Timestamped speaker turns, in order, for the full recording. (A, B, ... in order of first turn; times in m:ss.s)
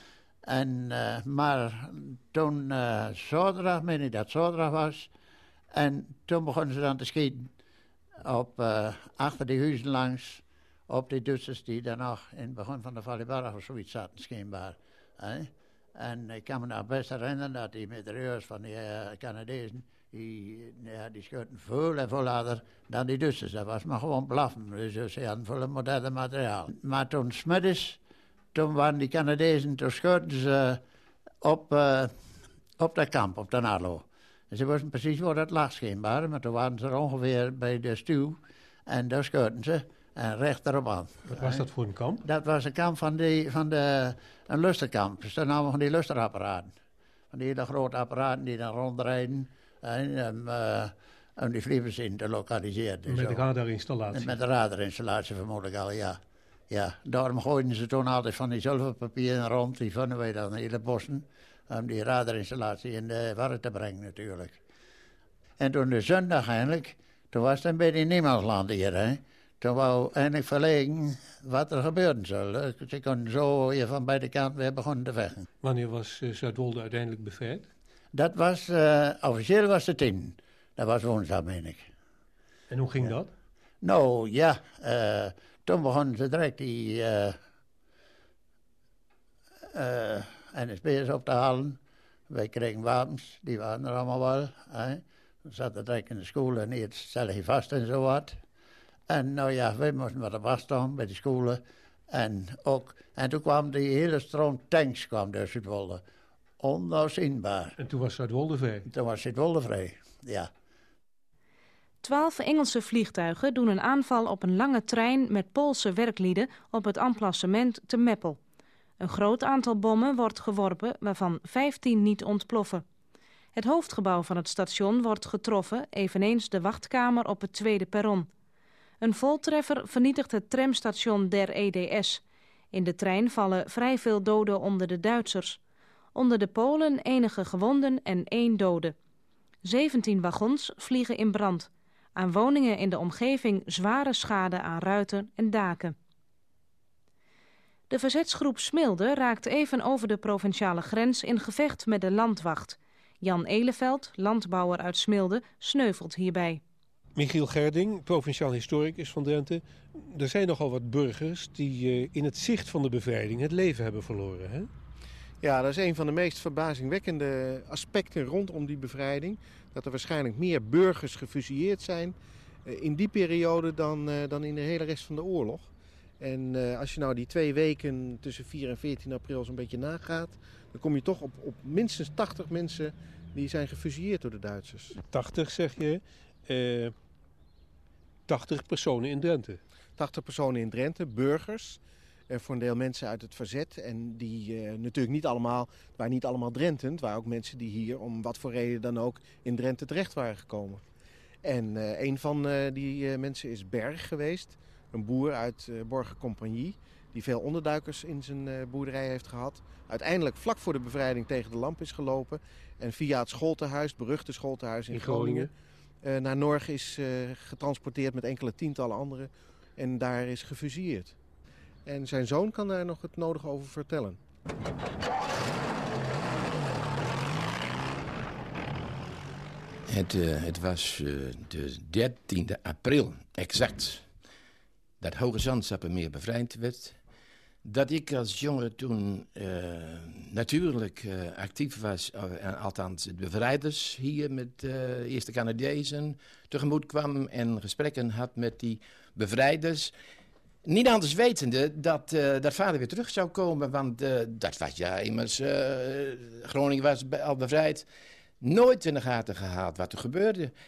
0:00.5-0:05.1 A
0:05.7-0:07.5 A
0:08.2-0:28.0 A
0:28.5-0:30.8 A
0:31.4-0:32.1 A
0:32.8-0:41.7 A
0:41.3-0:42.2 B
0:42.2-0:46.7 A
0:47.3-0:53.5 A
0:53.1-0:54.4 B
0:54.1-0:56.2 A
0:56.7-1:04.6 A
1:05.6-1:15.4 A
1:15.6-1:17.7 B
1:18.1-1:21.9 A
1:22.7-1:23.3 B
1:23.8-1:27.4 A
1:29.8-1:31.8 A
1:32.3-1:38.4 A
1:39.1-1:41.6 A
1:42.1-1:46.0 A
1:46.6-1:47.7 A
1:47.8-1:48.9 B
1:48.8-1:50.5 A
1:52.0-1:58.4 C
1:59.0-2:02.8 C
2:03.5-2:08.3 C
2:09.0-2:15.6 C
2:16.2-2:18.9 C
2:19.6-2:26.0 C
2:27.9-2:36.6 C
2:37.2-2:44.7 B
2:45.4-2:52.1 D
2:52.6-3:05.0 D
3:05.0-3:06.9 B
3:08.3-3:09.6 B
3:10.0-3:20.8 D
3:21.4-3:35.5 D
3:34.9-3:35.5 B
3:36.0-3:41.2 D
3:41.9-3:44.2 D
3:49.9-3:54.1 E
3:55.0-3:57.0 E
3:57.6-4:10.0 E
4:10.6-4:17.9 E
4:18.4-4:20.5 E